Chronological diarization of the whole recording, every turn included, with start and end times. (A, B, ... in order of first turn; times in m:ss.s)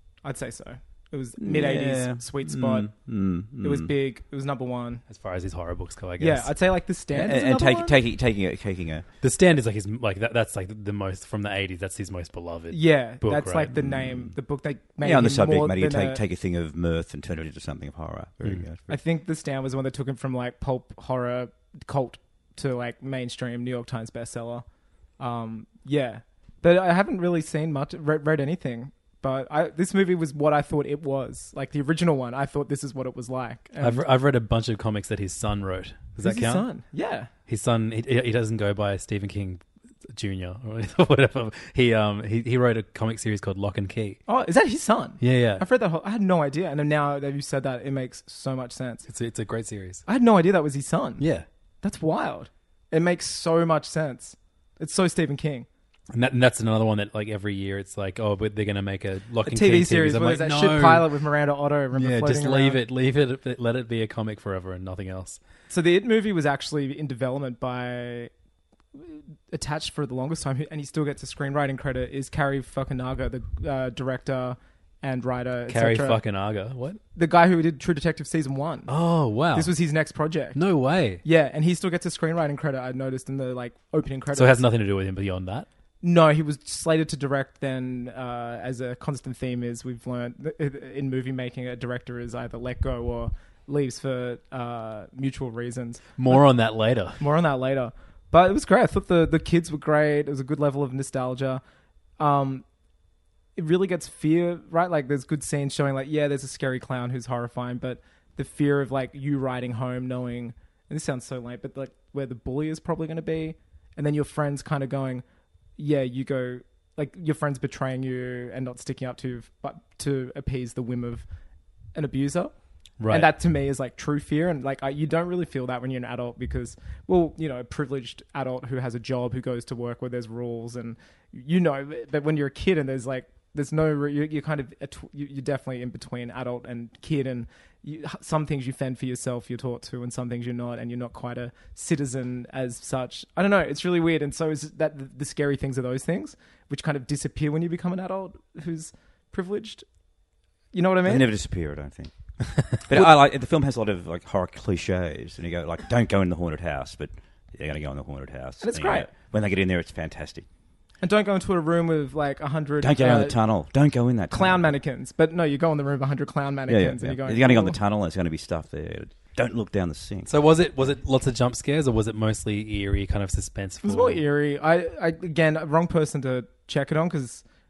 0:00.2-0:02.9 A
0:01.4-0:03.9 B
0:03.6-0:05.0 A
0:05.1-0:06.5 C
0:06.2-0:08.0 A
0:07.1-0:09.1 B
0:09.2-0:13.8 C
0:12.7-0:16.2 A
0:13.8-0:14.4 B
0:15.0-0:19.0 B
0:18.9-0:24.6 A
0:25.2-0:34.0 A
0:33.8-0:36.7 C
0:36.2-0:37.3 A
0:37.5-0:44.2 C
0:44.3-0:49.0 A
0:45.2-0:45.7 C
0:49.1-0:50.0 C
0:50.1-0:51.2 A
0:51.2-0:51.5 C
0:51.8-0:55.7 A
0:56.1-1:01.1 C
0:59.4-1:02.8 A
1:01.9-1:05.4 C
1:05.7-1:08.3 A
1:09.0-1:16.2 A
1:15.7-1:17.0 C
1:17.2-1:18.9 A
1:18.9-1:19.8 C
1:19.5-1:20.6 A
1:20.6-1:21.2 C
1:21.2-1:24.6 A
1:24.4-1:25.7 C
1:26.0-1:36.4 A
1:36.2-1:37.2 C
1:37.2-1:41.6 A
1:42.2-1:42.6 A
1:43.6-1:55.2 A
1:55.8-2:01.2 A
2:02.0-2:02.5 A
2:03.0-2:03.3 C
2:03.1-2:29.8 A
2:30.7-2:31.3 A
2:31.0-2:40.5 B
2:38.6-2:39.1 A
2:41.0-2:43.4 A
2:42.8-2:44.7 B
2:44.3-2:47.8 A
2:46.7-2:50.3 B
2:50.3-2:54.2 C
2:53.8-2:57.4 A